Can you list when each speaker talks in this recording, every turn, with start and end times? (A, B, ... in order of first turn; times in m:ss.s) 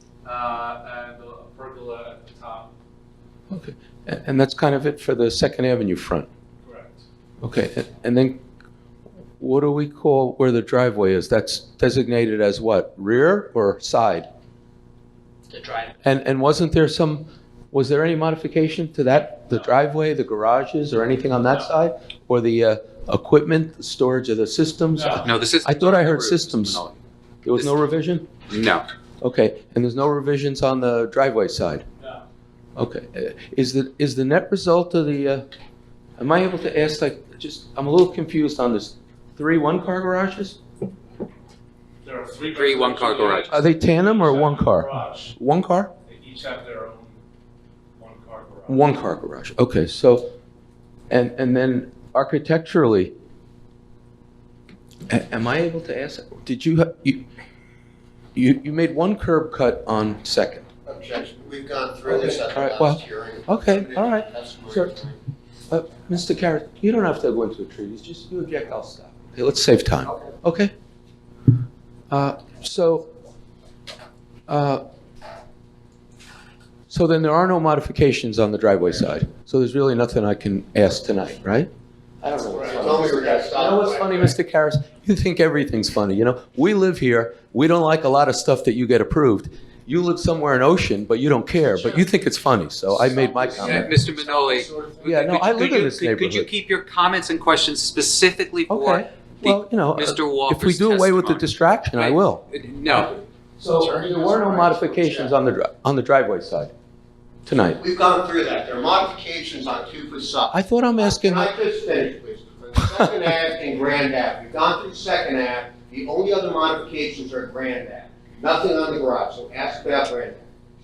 0:00.2-0:02.7 A
0:03.5-0:06.3 B
0:06.6-0:07.0 A
0:07.4-0:08.4 B
0:09.4-0:14.3 B
0:16.0-0:26.8 B
0:24.9-0:25.2 A
0:25.2-0:27.0 C
0:27.4-0:28.3 B
0:28.5-0:28.8 C
0:29.2-0:31.8 B
0:32.8-0:35.4 B
0:36.2-0:40.6 B
0:42.0-0:45.3 A
0:42.5-0:43.5 C
0:43.5-0:45.9 B
0:46.0-0:47.2 A
0:48.0-0:48.8 A
0:48.7-0:50.3 B
0:51.1-0:53.1 B
0:55.1-0:57.2 B
0:58.3-1:00.6 B
1:00.8-1:05.2 D
1:02.0-1:04.9 B
1:05.7-1:10.7 B
1:12.1-1:13.1 B
1:14.5-1:14.8 B
1:16.9-1:21.7 B
1:22.2-1:33.9 B
1:22.6-1:24.3 D
1:33.0-1:35.0 D
1:33.6-1:43.2 C
1:35.0-1:36.5 B
1:38.7-1:42.4 B
1:43.6-1:46.7 B
1:43.8-1:45.3 D
1:47.4-1:47.8 B
1:47.8-2:00.5 D
1:50.5-1:51.5 B